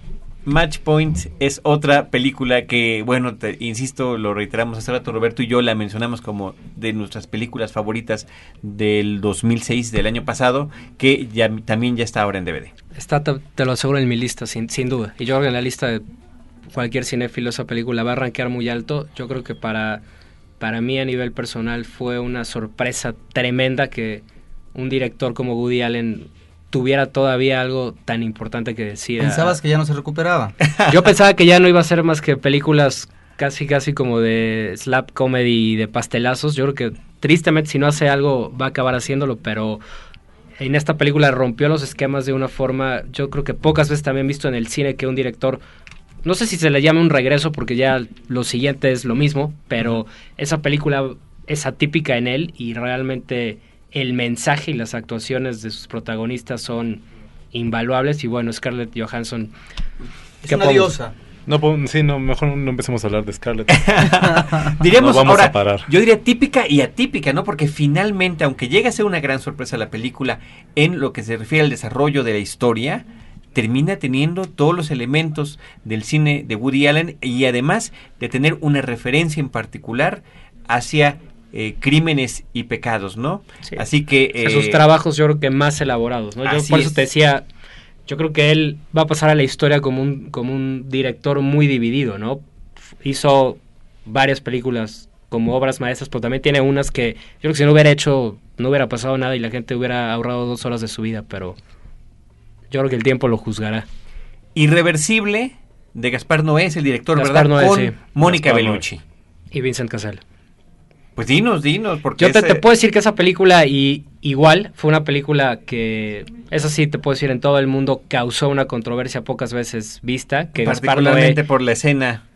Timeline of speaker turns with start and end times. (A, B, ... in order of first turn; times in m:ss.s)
0:00.4-0:12.7 A
0:12.9-0:16.0 B
0:16.7-0:20.0 B
0:20.6-0:24.2 B
0:24.7-0:29.6 B
0:29.2-0:30.5 C
0:30.6-0:30.9 A
0:30.9-0:39.8 B
0:40.6-0:45.6 B
0:46.2-0:59.5 B
1:00.4-1:01.1 C
1:00.5-1:00.9 B
1:01.4-1:05.9 D
1:03.7-1:24.8 A
1:24.4-1:27.4 B
1:26.4-1:27.0 A
1:28.0-1:32.4 B
1:33.0-1:41.6 B
1:42.7-1:43.8 B
1:44.5-1:49.0 A
1:47.2-1:48.0 B
1:48.2-1:48.8 D
1:49.5-1:50.2 B
1:51.2-1:52.6 A
1:52.2-2:01.4 B
2:00.6-2:02.2 A